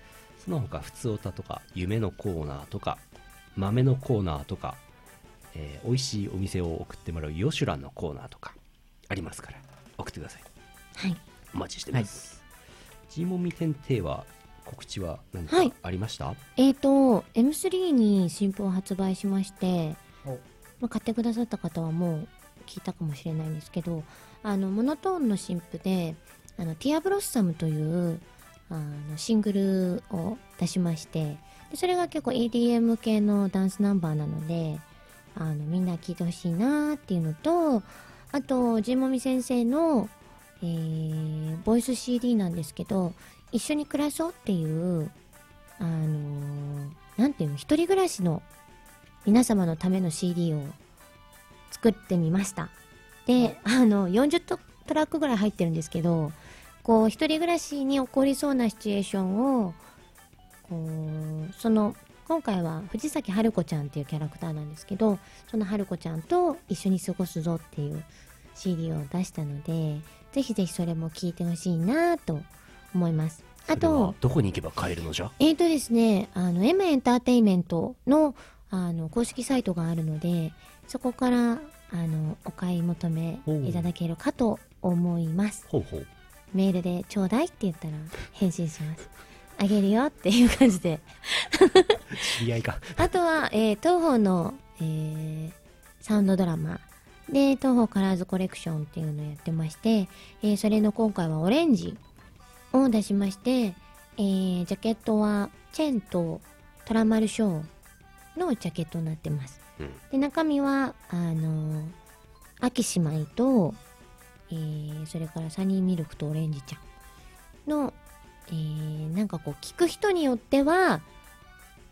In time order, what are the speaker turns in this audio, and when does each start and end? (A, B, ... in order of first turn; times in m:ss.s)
0:00.4-0:03.0 A
0:03.6-0:04.8 A
0:05.5-0:08.6 A
0:09.1-0:10.4 A
0:11.0-0:11.2 B
0:11.5-0:12.4 A
0:13.1-0:16.4 A
0:16.6-0:20.0 B
0:20.8-0:45.1 B
0:45.8-0:48.4 B
0:49.2-0:50.8 B
0:51.7-0:52.7 B
0:53.2-0:59.8 B
1:00.6-1:14.2 B
1:13.7-1:15.3 A
1:15.4-1:25.6 B
1:23.4-1:23.9 A
1:25.7-1:26.1 A
1:26.5-1:32.3 B
1:32.1-1:33.0 A
1:33.0-1:42.0 B
1:42.7-1:47.7 B
1:48.3-1:51.9 B
1:52.6-1:53.8 B
1:54.5-1:56.8 B
1:57.6-1:58.0 B
1:58.5-2:01.0 B